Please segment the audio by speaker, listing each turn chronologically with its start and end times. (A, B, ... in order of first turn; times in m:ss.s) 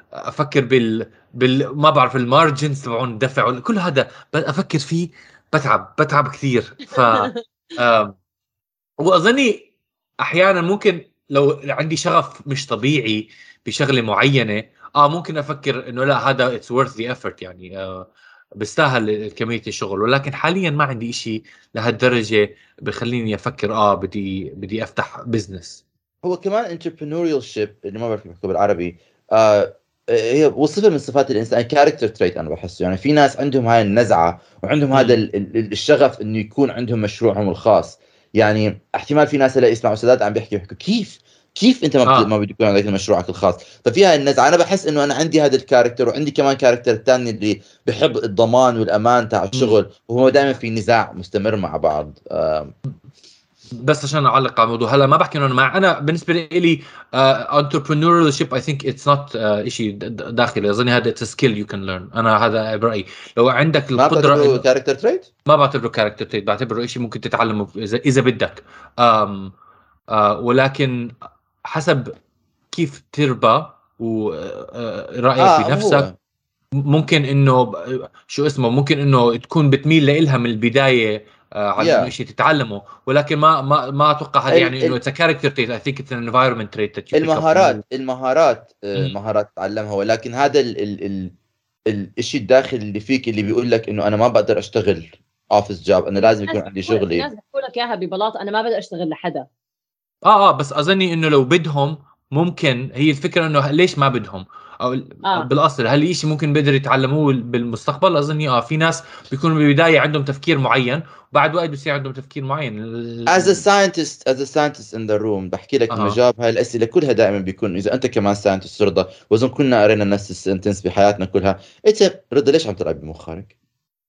0:00.2-0:08.2 A
0:07.0-0:07.4 B
0:09.0-0:09.7 A
0:10.2-0:18.1 A
0:18.6-0:25.8 A
0:26.2-0:52.7 C
0:49.5-0:49.8 A
0:53.8-1:04.6 A
1:04.0-1:05.3 C
1:05.5-1:09.5 A
1:10.1-1:11.1 A
1:11.7-1:12.1 A
1:12.7-1:16.1 A
1:15.4-1:16.1 C
1:16.8-1:27.8 A
1:21.8-1:22.1 C
1:24.5-1:25.0 C
1:27.1-1:31.3 C
1:31.9-1:37.2 C
1:36.2-1:39.5 B
1:40.2-1:53.6 A
1:53.3-2:03.5 C
1:55.9-1:56.2 A